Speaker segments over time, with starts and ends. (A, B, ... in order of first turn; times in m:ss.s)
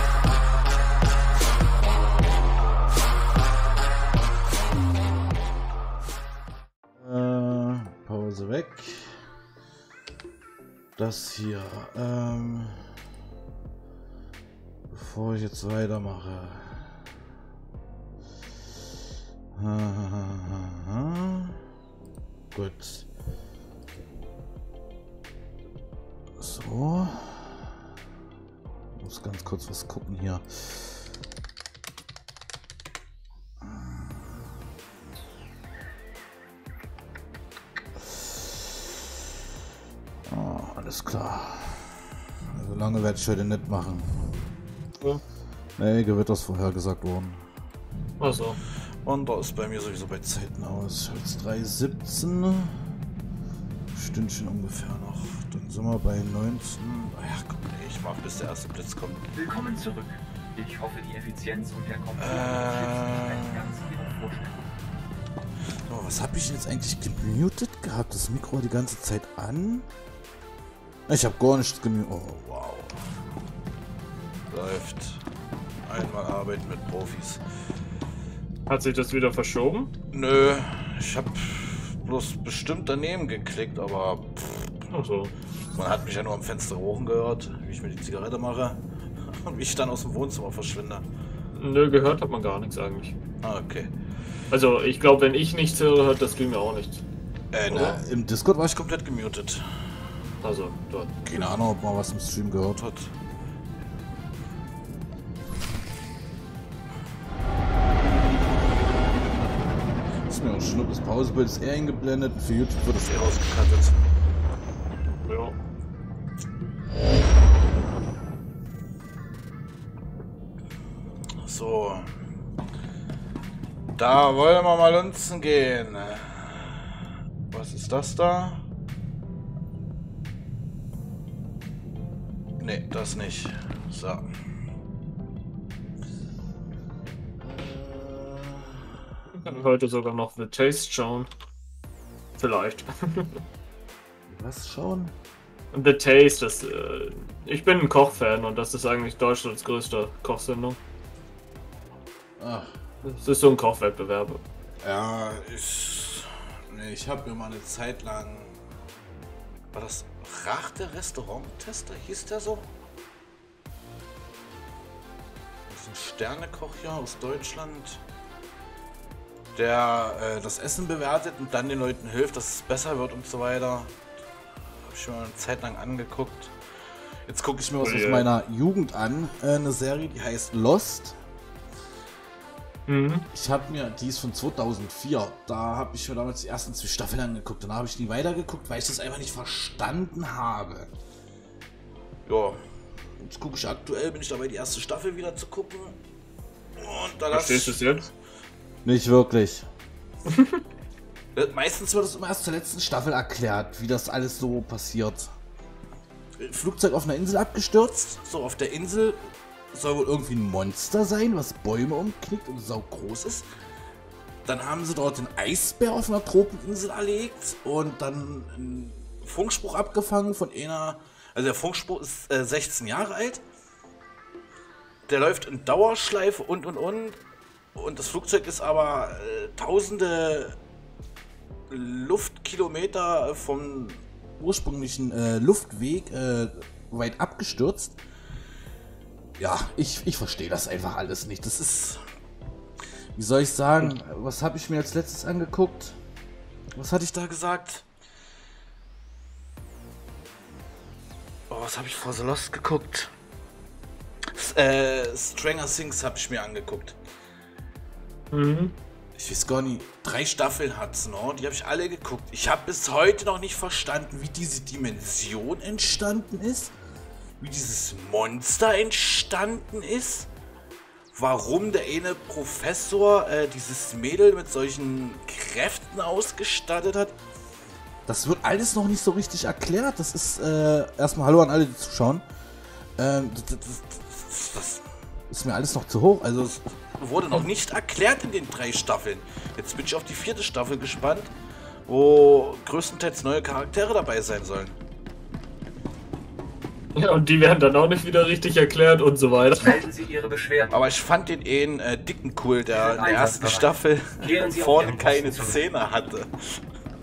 0:07.0-0:09.2 A
0:11.0-0:12.9 A
0:14.9-0:17.1 A
0:19.5-0:21.6 A
0:22.5-0:23.1 A
0:26.4-0:27.7 A
0:29.0-0:31.1 A
0:33.6-0:34.5 A
0:38.0-0:39.0 A
0:40.3-0:44.4 A
0:45.8-0:47.4 A
0:48.2-0:48.6 B
0:49.0-0:52.8 A
0:53.9-0:59.3 A
0:59.3-1:04.6 C
1:02.2-1:03.8 A
1:05.9-1:09.8 A
1:11.1-1:13.0 A
1:14.5-1:15.2 A
1:15.8-1:17.4 A
1:18.7-1:19.9 B
1:20.1-1:24.9 A
1:24.9-1:25.3 B
1:25.7-1:31.0 A
1:31.5-1:33.2 B
1:33.4-1:33.9 A
1:34.5-1:37.0 B
1:37.5-1:39.7 A
1:37.7-1:38.0 B
1:40.4-1:41.1 B
1:41.2-1:43.1 A
1:50.3-1:54.1 A
1:55.2-1:55.6 B
2:01.4-2:02.1 A
2:04.0-2:08.6 A
2:12.6-2:14.3 A
2:17.4-2:18.9 A
2:19.3-2:21.3 B
2:22.4-2:23.4 B
2:24.3-2:25.1 A
2:25.7-2:30.8 B
2:32.4-2:32.7 A
2:33.0-2:34.4 B
2:34.8-2:38.6 A
2:39.7-2:42.7 A
2:45.7-2:48.0 A
2:49.5-2:53.9 A
2:54.8-2:56.5 A
2:57.3-3:01.1 A
2:57.8-2:58.3 B
3:02.9-3:03.2 B
3:03.3-3:10.9 A
3:12.2-3:12.6 A
3:13.2-3:16.0 A
3:16.8-3:18.1 A
3:17.3-3:18.1 B
3:18.8-3:19.6 A
3:20.3-3:20.6 B
3:21.3-3:25.3 A
3:26.4-3:29.2 A
3:29.7-3:33.4 A
3:34.4-3:43.4 A
3:45.1-3:47.2 A
3:47.8-3:50.6 A
3:51.7-3:58.0 A
3:59.4-4:02.0 A
4:03.2-4:06.0 A
4:06.7-4:07.8 A
4:11.5-4:13.1 A
4:14.3-4:17.0 A
4:18.3-4:18.7 B
4:19.2-4:26.7 A
4:27.4-4:30.3 A
4:31.1-4:37.1 A
4:38.1-4:42.2 A
4:43.0-4:51.3 A
4:51.9-4:54.8 A
4:56.9-4:59.8 B
4:59.6-5:00.8 C
5:00.7-5:06.6 A
5:02.7-5:05.6 C